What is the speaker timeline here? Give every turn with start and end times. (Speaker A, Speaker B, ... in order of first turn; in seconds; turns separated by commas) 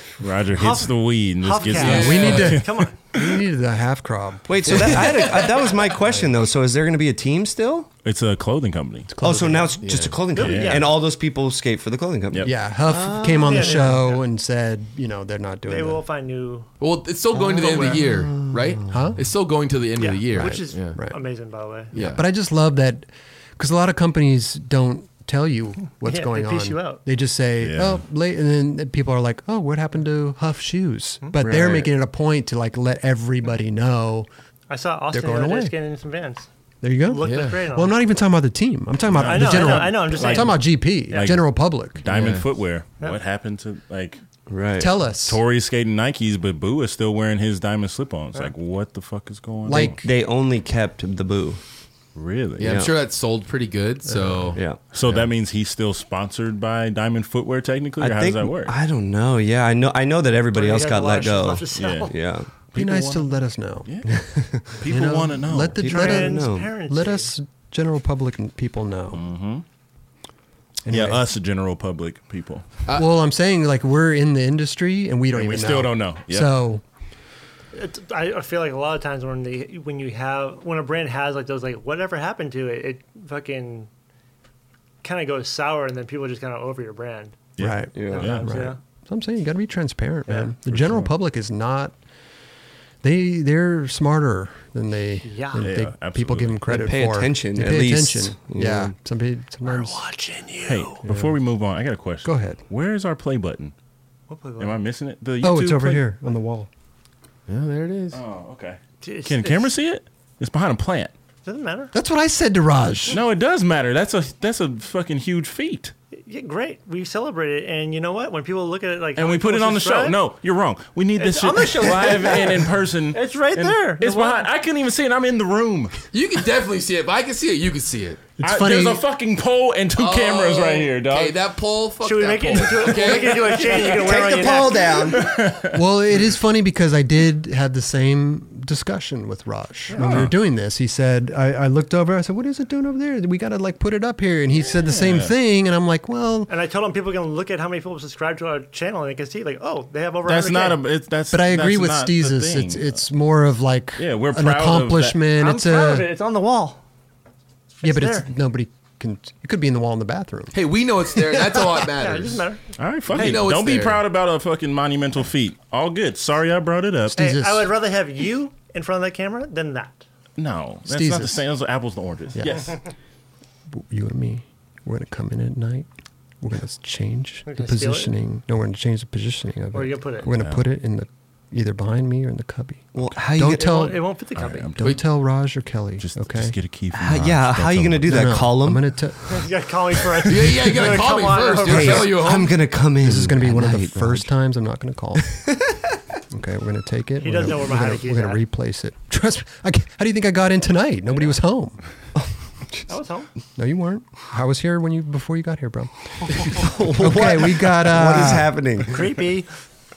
Speaker A: 0.2-2.7, Speaker B: 0.5-3.0, Speaker C: 1.7-2.6, Speaker D: 1.8-5.4, Speaker E: 4.5-7.9, Speaker C: 4.9-5.6, Speaker A: 8.0-9.1, Speaker D: 9.1-9.8, Speaker E: 9.2-13.9, Speaker C: 9.8-10.2, Speaker A: 10.3-10.8, Speaker B: 10.3-10.9, Speaker D: 12.4-16.0, Speaker B: 13.4-14.2, Speaker B: 15.7-16.7, Speaker C: 16.8-21.0, Speaker E: 17.4-18.9, Speaker B: 17.6-18.1, Speaker D: 18.9-19.2, Speaker B: 20.0-21.9, Speaker D: 20.3-21.2, Speaker C: 21.9-22.2, Speaker D: 21.9-34.3, Speaker B: 26.0-27.0, Speaker A: 27.6-28.0, Speaker C: 31.5-31.8, Speaker B: 34.7-36.5, Speaker D: 35.1-35.7, Speaker D: 36.8-42.3, Speaker B: 37.0-37.9, Speaker C: 37.2-37.6, Speaker A: 39.1-40.6, Speaker B: 39.2-41.3, Speaker A: 41.1-41.5, Speaker A: 42.0-44.2, Speaker C: 42.1-42.4, Speaker E: 44.5-44.9, Speaker D: 44.8-45.4, Speaker A: 45.1-50.0, Speaker D: 49.6-50.0, Speaker E: 49.7-51.6, Speaker A: 52.1-52.7, Speaker C: 52.6-54.6, Speaker E: 52.6-52.9, Speaker D: 54.1-54.5, Speaker E: 54.5-55.2, Speaker A: 54.9-58.7, Speaker E: 58.0-62.5, Speaker B: 60.5-62.1, Speaker A: 61.7-62.1, Speaker A: 62.7-63.3, Speaker D: 62.7-64.1, Speaker E: 64.1-64.8, Speaker A: 64.8-65.8, Speaker D: 64.8-69.2, Speaker E: 65.8-66.7, Speaker B: 65.8-67.3, Speaker A: 69.1-69.6, Speaker D: 70.8-71.2, Speaker A: 70.9-72.7, Speaker C: 72.8-73.1, Speaker D: 72.9-76.8, Speaker A: 75.3-76.5, Speaker B: 77.7-83.9, Speaker B: 85.0-87.5, Speaker A: 87.6-88.6, Speaker D: 87.6-91.9, Speaker E: 87.9-88.4, Speaker B: 88.1-88.8, Speaker A: 90.7-91.1, Speaker D: 93.0-100.0, Speaker B: 95.2-95.6, Speaker A: 95.5-96.8, Speaker E: 96.7-98.9, Speaker B: 99.6-101.0, Speaker A: 100.6-103.7, Speaker D: 101.0-101.3, Speaker D: 102.2-102.6, Speaker B: 104.3-104.8, Speaker A: 104.6-106.0, Speaker D: 105.4-106.7, Speaker C: 107.5-108.2, Speaker A: 108.1-111.1, Speaker B: 109.0-109.7, Speaker B: 111.4-111.9, Speaker D: 111.9-113.2, Speaker A: 113.1-115.9, Speaker B: 116.2-120.2, Speaker A: 119.2-126.0, Speaker B: 121.2-124.5, Speaker C: 126.1-128.3, Speaker D: 128.4-129.0, Speaker A: 128.4-131.4, Speaker C: 129.9-134.2, Speaker B: 132.0-135.2, Speaker E: 133.8-135.3, Speaker A: 135.1-135.8, Speaker D: 135.7-146.5, Speaker B: 139.9-140.2, Speaker A: 139.9-140.3, Speaker A: 144.8-145.3, Speaker B: 146.5-150.8, Speaker A: 150.2-152.9, Speaker D: 151.3-156.1, Speaker A: 154.0-155.2, Speaker B: 155.3-156.8, Speaker B: 157.8-158.3, Speaker D: 157.8-160.5, Speaker C: 160.5-162.4, Speaker B: 161.6-163.4, Speaker A: 162.8-167.2, Speaker C: 163.1-164.0, Speaker D: 167.1-167.7, Speaker B: 167.2-170.0, Speaker A: 170.4-172.8, Speaker D: 170.8-171.4, Speaker D: 172.3-172.7, Speaker D: 173.7-175.9, Speaker D: 176.4-184.0, Speaker B: 177.5-178.1, Speaker B: 179.7-180.3, Speaker A: 180.3-180.6, Speaker E: 182.9-183.9, Speaker B: 183.5-184.7, Speaker A: 184.3-185.0, Speaker D: 184.8-186.5, Speaker A: 186.0-188.2, Speaker E: 186.9-188.9, Speaker D: 188.0-189.2, Speaker B: 189.3-192.2, Speaker C: 190.2-192.6, Speaker E: 191.6-194.3, Speaker D: 193.0-195.3, Speaker E: 195.2-195.8, Speaker D: 196.3-201.8, Speaker B: 197.2-198.4, Speaker B: 202.9-203.3, Speaker D: 203.6-205.9, Speaker D: 206.4-208.5, Speaker E: 206.5-209.1, Speaker B: 208.9-209.5